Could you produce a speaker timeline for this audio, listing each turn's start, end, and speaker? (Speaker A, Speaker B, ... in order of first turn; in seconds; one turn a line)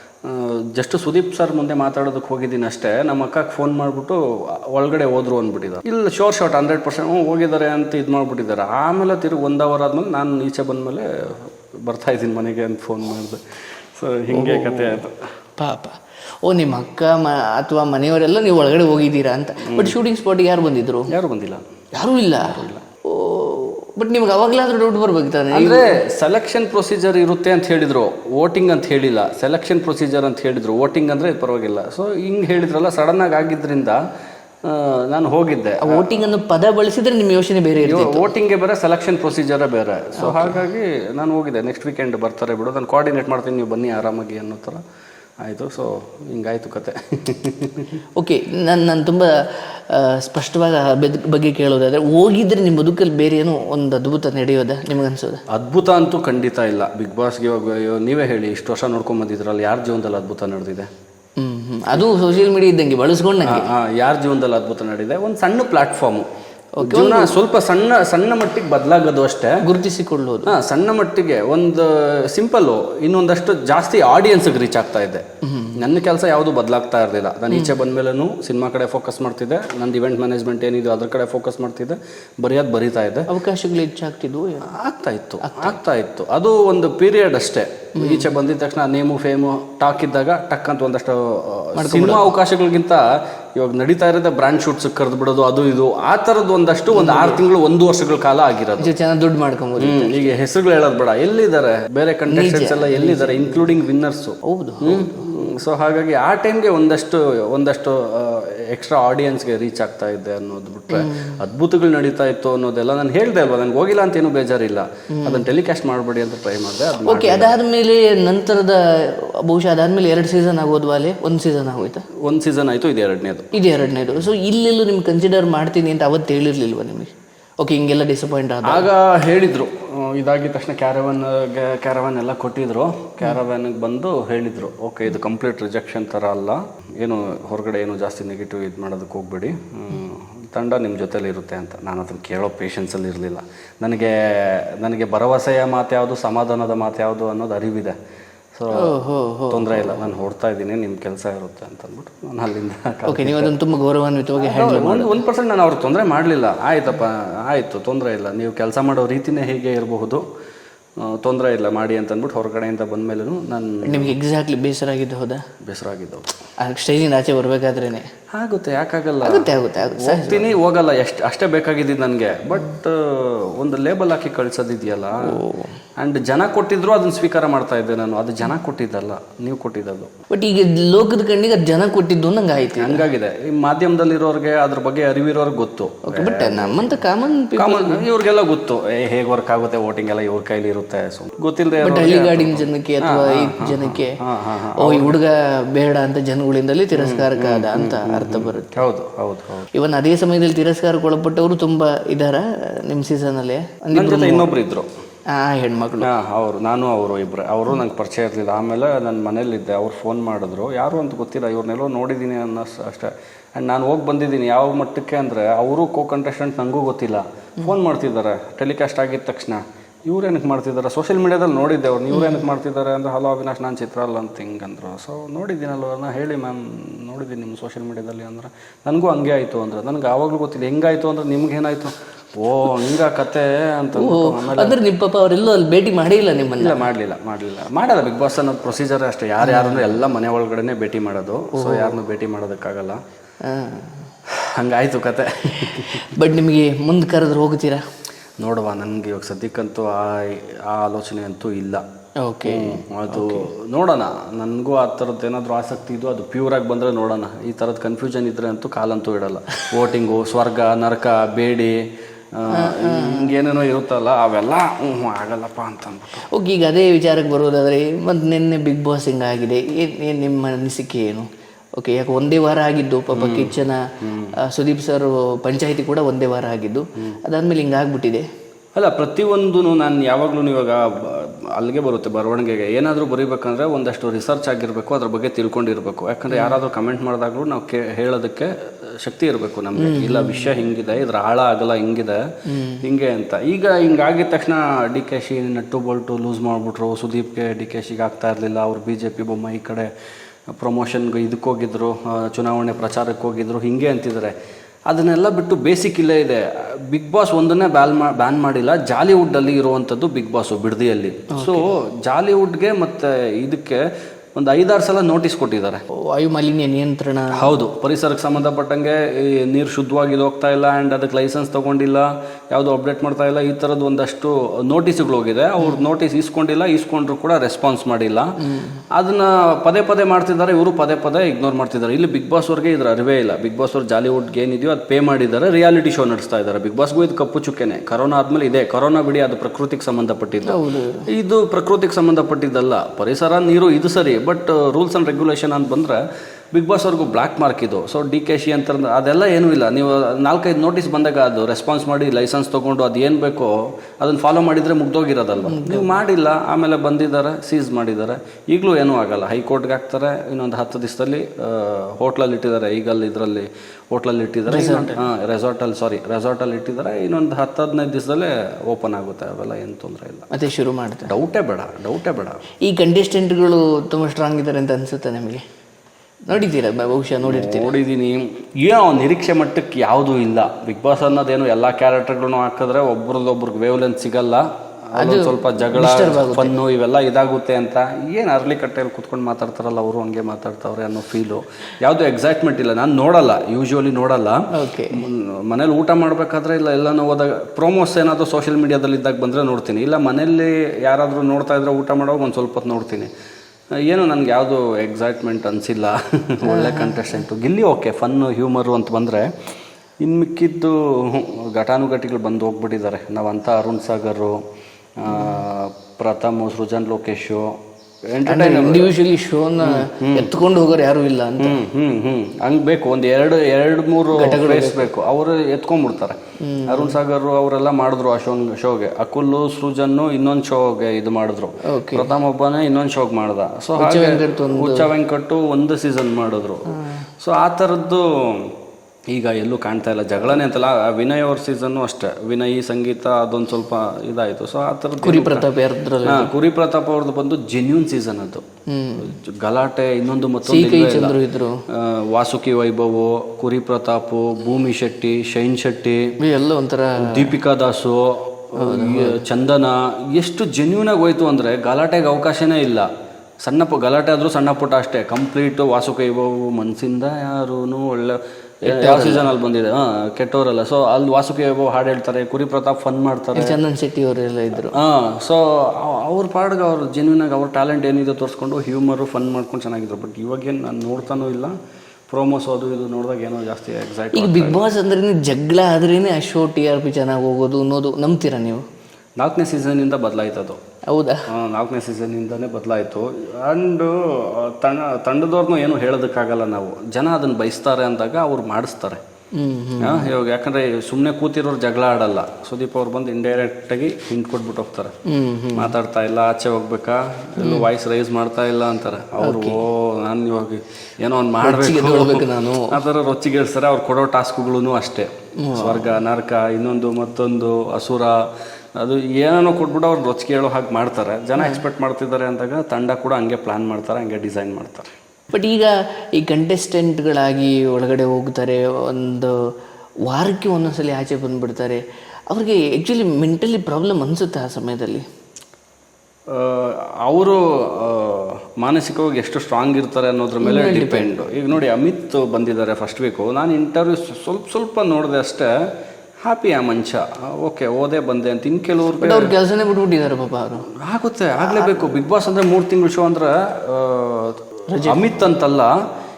Speaker A: 0.2-13.4
Speaker A: 13.9-15.2
Speaker B: 14.3-15.0
Speaker B: 15.6-21.1
Speaker A: 19.6-19.9
Speaker A: 21.1-21.7
Speaker B: 21.9-26.0
Speaker A: 22.4-22.8
Speaker A: 25.5-34.0
Speaker A: 34.6-36.2
Speaker B: 35.8-38.3
Speaker A: 37.8-44.8
Speaker B: 40.2-40.6
Speaker A: 45.4-48.0
Speaker B: 48.1-55.4
Speaker A: 55.5-60.9
Speaker B: 61.4-63.7
Speaker A: 63.4-66.2
Speaker B: 66.8-67.3
Speaker A: 66.8-69.6
Speaker B: 69.6-70.5
Speaker A: 70.4-75.2
Speaker B: 75.4-75.8
Speaker A: 75.7-83.3
Speaker B: 83.3-84.7
Speaker A: 84.6-98.9
Speaker B: 85.4-85.8
Speaker B: 88.0-88.3
Speaker B: 91.8-92.3
Speaker B: 96.9-97.4
Speaker B: 98.8-100.3
Speaker A: 99.8-117.5
Speaker B: 102.3-103.7
Speaker B: 104.4-105.3
Speaker B: 110.9-111.4
Speaker B: 115.1-115.5
Speaker B: 117.0-122.0
Speaker A: 122.2-123.5
Speaker B: 123.5-128.9
Speaker A: 128.7-147.9
Speaker A: 148.5-148.9
Speaker B: 148.7-150.1
Speaker A: 149.5-153.5
Speaker B: 153.1-155.2
Speaker A: 154.4-160.2
Speaker A: 161.0-164.1
Speaker B: 163.8-165.4
Speaker A: 165.6-166.3
Speaker B: 166.6-168.1
Speaker A: 168.3-175.4
Speaker B: 169.2-170.5
Speaker B: 175.2-175.8
Speaker A: 176.0-180.1
Speaker B: 180.3-183.0
Speaker A: 182.8-186.9
Speaker B: 186.0-188.0
Speaker A: 187.5-195.2
Speaker B: 191.8-194.2
Speaker B: 194.8-198.8
Speaker A: 196.9-199.7
Speaker B: 199.7-204.5
Speaker A: 203.9-204.9
Speaker B: 205.3-206.1
Speaker A: 206.0-234.8
Speaker B: 222.1-222.4
Speaker B: 233.9-236.9
Speaker A: 236.6-243.0
Speaker B: 239.4-239.9
Speaker B: 241.5-242.0
Speaker B: 243.4-244.1
Speaker A: 244.3-246.1
Speaker B: 245.7-247.8
Speaker A: 248.4-251.8
Speaker B: 252.2-253.5
Speaker A: 252.4-261.8
Speaker A: 262.3-266.2
Speaker B: 262.5-263.3
Speaker B: 266.3-273.8
Speaker A: 273.1-274.3
Speaker B: 274.4-278.2
Speaker A: 278.8-292.2
Speaker B: 286.3-286.6
Speaker B: 289.8-290.6
Speaker B: 292.5-292.8
Speaker A: 292.8-299.9
Speaker A: 300.5-304.3
Speaker A: 304.9-313.8
Speaker B: 311.3-311.7
Speaker A: 314.4-315.8
Speaker B: 315.9-317.5
Speaker A: 317.3-328.3
Speaker B: 328.4-328.8
Speaker A: 328.9-346.0
Speaker B: 340.4-341.0
Speaker A: 346.5-370.3
Speaker B: 355.4-356.0
Speaker B: 364.5-365.0
Speaker B: 370.3-371.1
Speaker A: 371.0-372.4
Speaker B: 372.6-375.4
Speaker B: 376.3-377.7
Speaker A: 377.2-403.1
Speaker B: 384.9-386.5
Speaker B: 394.5-395.0
Speaker A: 403.8-409.3
Speaker B: 406.4-407.2
Speaker A: 410.0-414.4
Speaker A: 415.0-418.9
Speaker B: 415.1-415.4
Speaker B: 418.2-421.6
Speaker A: 419.6-420.3
Speaker A: 421.4-438.5
Speaker B: 424.1-424.9
Speaker B: 426.4-426.9
Speaker B: 431.6-432.1
Speaker B: 433.8-434.9
Speaker B: 436.7-437.0
Speaker A: 439.1-445.5
Speaker B: 445.0-446.3
Speaker A: 446.0-448.4
Speaker B: 448.7-449.1
Speaker A: 449.0-451.2
Speaker B: 450.4-451.6
Speaker A: 451.7-456.1
Speaker B: 456.2-457.4
Speaker A: 457.0-462.9
Speaker B: 458.6-459.2
Speaker A: 463.4-473.6
Speaker B: 468.6-469.3
Speaker B: 473.3-474.8
Speaker A: 474.7-481.5
Speaker A: 482.1-484.6
Speaker B: 484.1-488.6
Speaker A: 489.2-490.6
Speaker B: 490.9-491.2
Speaker A: 491.3-499.0
Speaker B: 499.3-500.1
Speaker A: 499.8-504.9
Speaker B: 505.1-505.7
Speaker A: 505.5-518.2
Speaker B: 507.4-507.7
Speaker B: 509.2-509.6
Speaker B: 511.4-512.8
Speaker B: 515.4-515.9
Speaker A: 518.8-524.9
Speaker B: 525.3-529.4
Speaker B: 530.0-535.0
Speaker A: 536.3-545.5
Speaker B: 540.4-541.1
Speaker A: 546.2-549.3
Speaker B: 549.0-550.6
Speaker A: 550.8-555.7
Speaker B: 551.4-551.9
Speaker B: 554.7-555.2